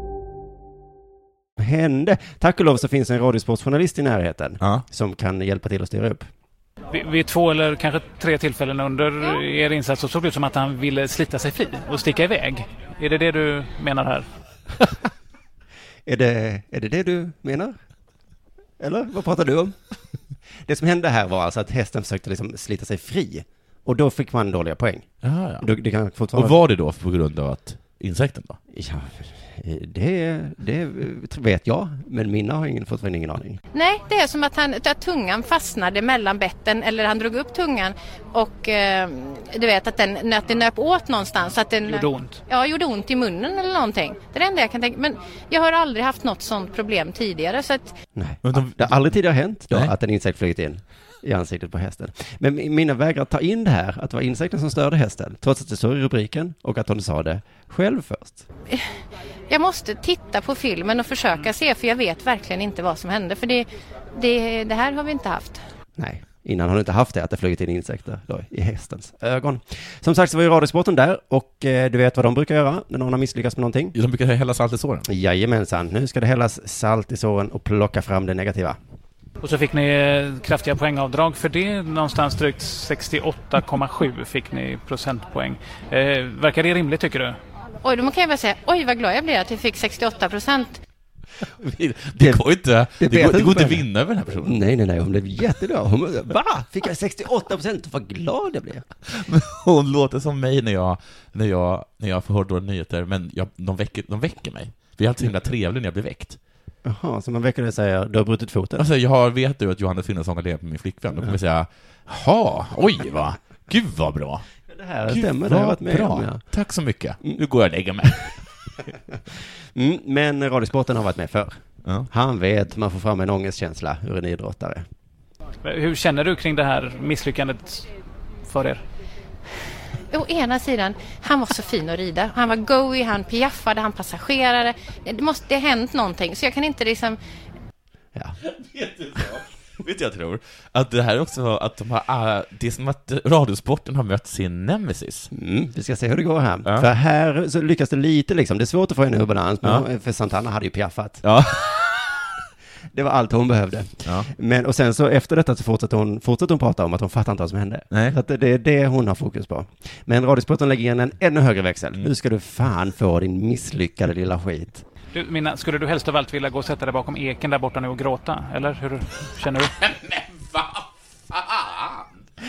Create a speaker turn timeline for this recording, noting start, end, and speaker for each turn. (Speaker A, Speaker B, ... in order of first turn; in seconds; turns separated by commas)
Speaker A: 1.6-6.3, Speaker B: 6.9-14.3, Speaker A: 16.1-17.8, Speaker A: 18.8-19.8, Speaker A: 20.6-26.6, Speaker C: 25.2-25.7, Speaker C: 26.3-28.6, Speaker A: 28.7-33.6, Speaker D: 33.7-48.0, Speaker B: 41.9-42.4, Speaker A: 48.2-58.4, Speaker C: 48.4-49.2, Speaker D: 59.5-65.6, Speaker A: 66.0-74.0, Speaker C: 73.9-75.1, Speaker A: 75.1-78.8, Speaker B: 79.4-87.4, Speaker D: 87.8-90.8, Speaker C: 91.5-94.6, Speaker A: 93.0-93.9, Speaker A: 94.4-98.9, Speaker C: 99.0-106.4, Speaker A: 106.8-108.8, Speaker C: 108.8-114.5, Speaker A: 114.7-116.4, Speaker C: 115.1-118.3, Speaker A: 119.8-124.8, Speaker C: 121.8-122.1, Speaker B: 125.6-127.9, Speaker B: 128.4-128.8, Speaker D: 130.1-137.2, Speaker C: 138.4-145.3, Speaker A: 145.3-151.2, Speaker C: 151.2-152.2, Speaker A: 152.9-164.8, Speaker C: 154.0-154.3, Speaker C: 157.9-158.2, Speaker B: 165.1-169.8, Speaker C: 169.8-172.1